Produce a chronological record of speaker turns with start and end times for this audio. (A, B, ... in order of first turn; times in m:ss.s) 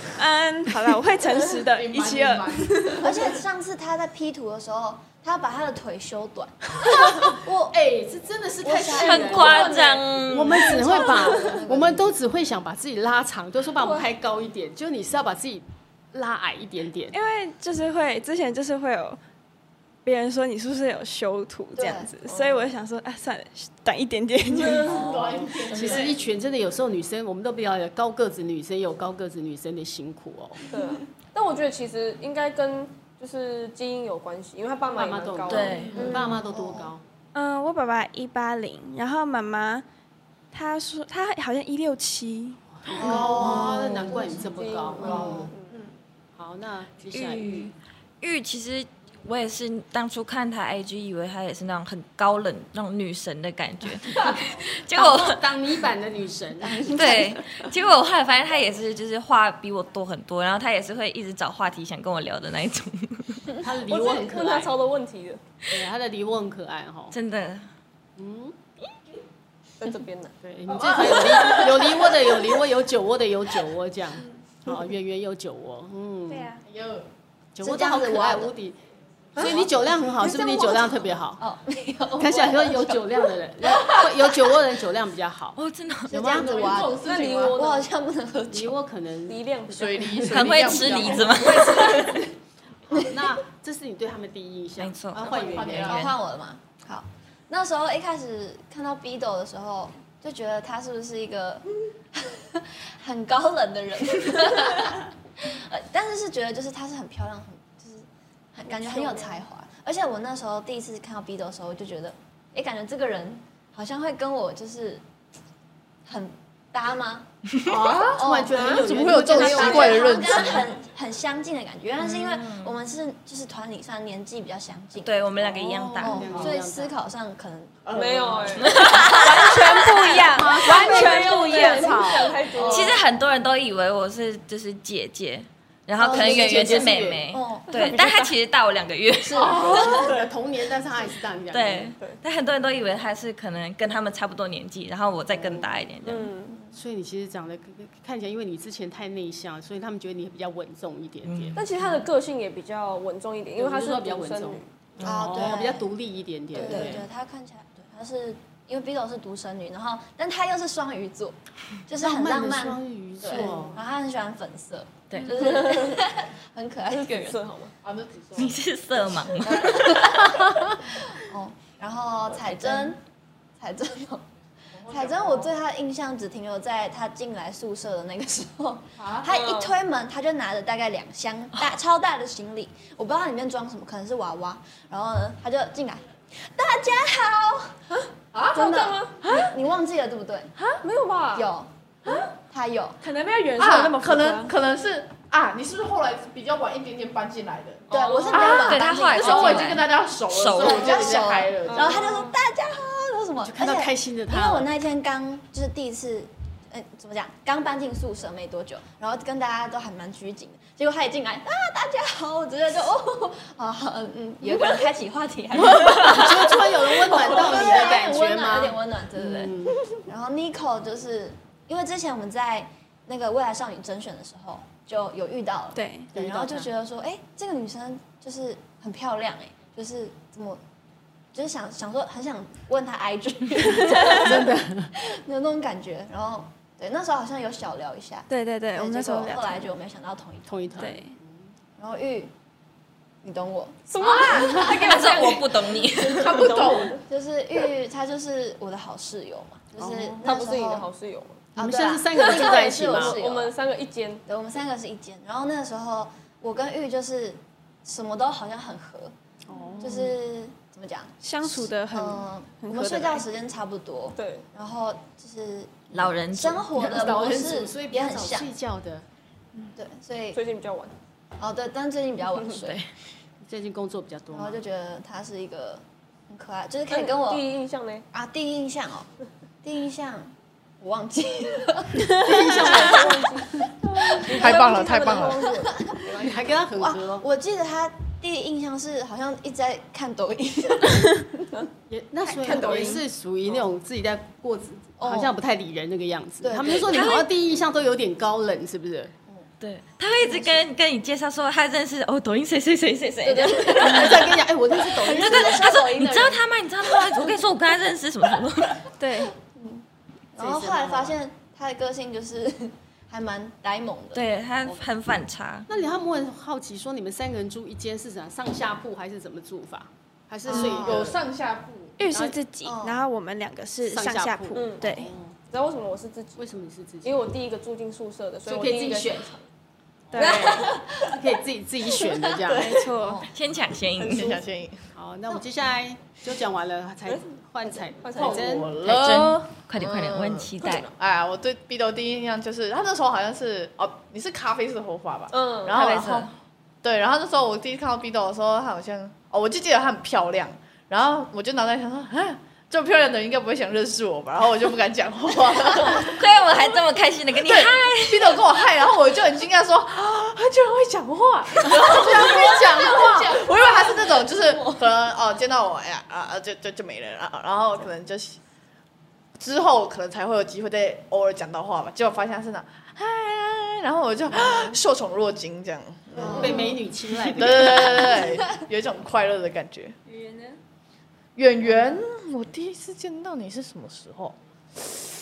0:00.2-0:03.1 A
0:01.6-0:03.2 B
0:03.0-0:07.3 C
0:06.8-0:17.2 D
0:08.6-0:09.5 C
0:08.9-0:10.8 E
0:09.2-0:11.6 F
0:10.6-0:12.1 C
0:13.8-0:14.1 F
0:17.1-0:19.2 A
0:20.0-0:25.0 A
0:21.8-0:22.1 C
0:22.2-0:22.7 F
0:24.6-0:25.0 F
0:24.8-0:26.2 B
0:24.9-0:30.7 D
0:30.7-0:36.3 F
0:34.9-0:37.0 D
0:35.5-0:36.1 E
0:35.8-0:36.2 B
0:36.0-0:36.9 C
0:37.3-0:39.8 A
0:40.5-0:42.6 A
0:42.8-0:45.5 D
0:43.0-0:44.2 C
0:43.0-0:44.0 B
0:44.4-0:45.9 F
0:45.0-0:45.5 C
0:45.0-0:45.4 B
0:46.4-0:47.7 D
0:47.1-0:55.7 E
0:54.9-0:57.3 D
0:56.6-0:57.4 C
0:56.9-1:03.5 E
1:03.6-1:04.7 D
1:03.9-1:05.4 F
1:05.7-1:07.1 D
1:07.1-1:07.7 E
1:08.2-1:08.6 D
1:09.8-1:10.4 F
1:10.4-1:16.6 D
1:10.7-1:11.9 B
1:16.3-1:16.6 A
1:16.6-1:17.1 B
1:17.6-1:18.8 D
1:17.6-1:18.5 C
1:19.4-1:21.4 D
1:19.4-1:19.6 C
1:20.2-1:23.3 C
1:22.2-1:25.6 D
1:23.8-1:24.5 C
1:25.6-1:26.1 E
1:26.1-1:28.8 C
1:26.1-1:26.7 D
1:26.1-1:27.6 B
1:27.0-1:27.9 F
1:28.5-1:31.8 D
1:29.3-1:30.3 F
1:29.7-1:32.2 B
1:30.2-1:32.3 E
1:31.4-1:32.1 F
1:32.9-1:36.0 D
1:34.8-1:36.1 E
1:35.2-1:36.1 B
1:35.8-1:55.0 C
1:48.7-1:49.4 F
1:56.1-1:57.3 C
1:57.7-2:00.7 B
1:57.7-2:00.1 D
1:58.1-2:05.2 C
1:58.5-2:00.4 F
2:02.0-2:02.8 E
2:05.0-2:06.5 E
2:05.4-2:06.9 D
2:06.0-2:07.9 C
2:07.9-2:09.0 B
2:07.9-2:09.6 F
2:08.6-2:10.1 E
2:08.9-2:12.2 A
2:10.3-2:12.4 D
2:10.4-2:13.0 F
2:12.6-2:13.0 C
2:12.6-2:19.9 E
2:16.0-2:17.3 D
2:16.0-2:17.9 C
2:17.7-2:18.4 F
2:19.3-2:22.0 D
2:19.4-2:19.9 B
2:19.8-2:20.3 F
2:21.5-2:26.3 E
2:25.3-2:25.6 D
2:26.0-2:26.6 F
2:26.7-2:31.6 D
2:31.2-2:31.9 E
2:31.6-2:34.7 F
2:33.6-2:37.1 D
2:35.0-2:35.5 E
2:35.0-2:35.9 C
2:36.5-2:47.4 C
2:36.6-2:36.9 F
2:42.0-2:43.8 D
2:45.3-2:46.0 F
2:46.9-2:47.7 F
2:47.8-2:48.6 B
2:48.4-2:50.3 E
2:49.4-2:53.0 C
2:53.6-2:54.2 C
2:54.8-2:55.5 B
2:54.9-3:07.8 C
2:59.0-2:59.3 B
2:59.3-2:59.7 F
3:08.3-3:08.7 B
3:08.5-3:09.3 F
3:08.6-3:10.5 C
3:10.8-3:11.5 F
3:11.4-3:11.7 C
3:12.4-3:13.0 C
3:13.0-3:14.5 A
3:13.6-3:22.1 B
3:17.9-3:18.8 F
3:17.9-3:19.8 C
3:18.3-3:21.2 E
3:20.6-3:50.6 C
3:21.6-3:22.3 F
3:23.4-3:24.7 D
3:35.5-3:39.9 D
3:45.8-3:46.1 A
3:46.1-3:46.7 D
3:51.3-4:00.8 C
3:53.8-3:54.9 D
3:58.3-3:59.6 A
4:00.5-4:01.5 D
4:00.8-4:01.2 A
4:01.8-4:02.3 C
4:03.2-4:04.7 C
4:03.9-4:07.0 F
4:04.0-4:04.3 B
4:04.5-4:06.4 E
4:06.0-4:07.0 B
4:07.0-4:10.9 C
4:09.8-4:10.2 D
4:10.2-4:11.5 F
4:11.6-4:13.2 D
4:11.6-4:13.5 C
4:12.1-4:14.2 F
4:14.3-4:19.1 C
4:19.5-4:20.2 D
4:19.8-4:28.5 C
4:21.2-4:23.3 A
4:24.2-4:24.4 F
4:25.9-4:26.7 E
4:26.7-4:29.0 D
4:29.8-4:30.4 C
4:30.3-4:31.0 F
4:31.4-4:32.8 C
4:32.6-4:32.9 E
4:33.4-4:34.6 D
4:34.3-4:37.4 C
4:36.9-4:38.0 F
4:38.1-4:39.1 C
4:39.6-4:42.9 C
4:42.1-4:43.7 D
4:42.5-4:46.5 F
4:44.0-4:44.6 C
4:44.3-4:45.5 B
4:45.4-4:46.0 C
4:46.1-4:47.2 D
4:46.8-4:51.6 C
4:51.9-4:59.1 D
4:52.4-4:53.0 C
4:52.4-4:53.0 F
4:55.0-4:55.3 C
4:56.4-4:57.2 C
4:56.9-4:57.3 E
4:59.6-5:04.4 E
5:00.2-5:00.6 C
5:03.2-5:06.4 C
5:03.7-5:05.8 D
5:05.0-5:08.8 E
5:09.0-5:09.3 A
5:09.6-5:09.8 C
5:10.4-5:14.3 C
5:10.4-5:11.2 D
5:14.1-5:15.7 E
5:15.7-5:21.2 D
5:20.4-5:21.1 C
5:20.5-5:22.0 B
5:22.0-5:25.1 A
5:22.1-5:22.4 D
5:22.6-5:23.0 C
5:23.8-5:25.4 D
5:24.5-5:26.4 F
5:26.4-5:27.3 D
5:27.0-5:29.4 F
5:28.5-5:29.3 D
5:30.1-5:32.8 D
5:30.2-5:31.2 F
5:32.4-5:32.8 F
5:32.5-5:33.3 A
5:32.9-5:33.3 C
5:33.3-5:34.4 E
5:34.0-5:34.4 F
5:34.0-5:34.9 B
5:35.0-5:38.8 D
5:37.7-5:38.6 F
5:38.2-5:56.5 B
5:38.8-5:40.9 E
5:40.6-5:40.9 F
5:45.3-5:45.9 F
5:45.7-5:46.3 E
5:56.0-5:58.4 E
5:57.4-6:08.4 B
6:01.7-6:03.4 D
6:09.4-6:20.0 B
6:16.2-6:18.0 D
6:16.2-6:16.7 C
6:18.0-6:18.4 C
6:20.1-6:20.6 A
6:21.4-6:24.4 B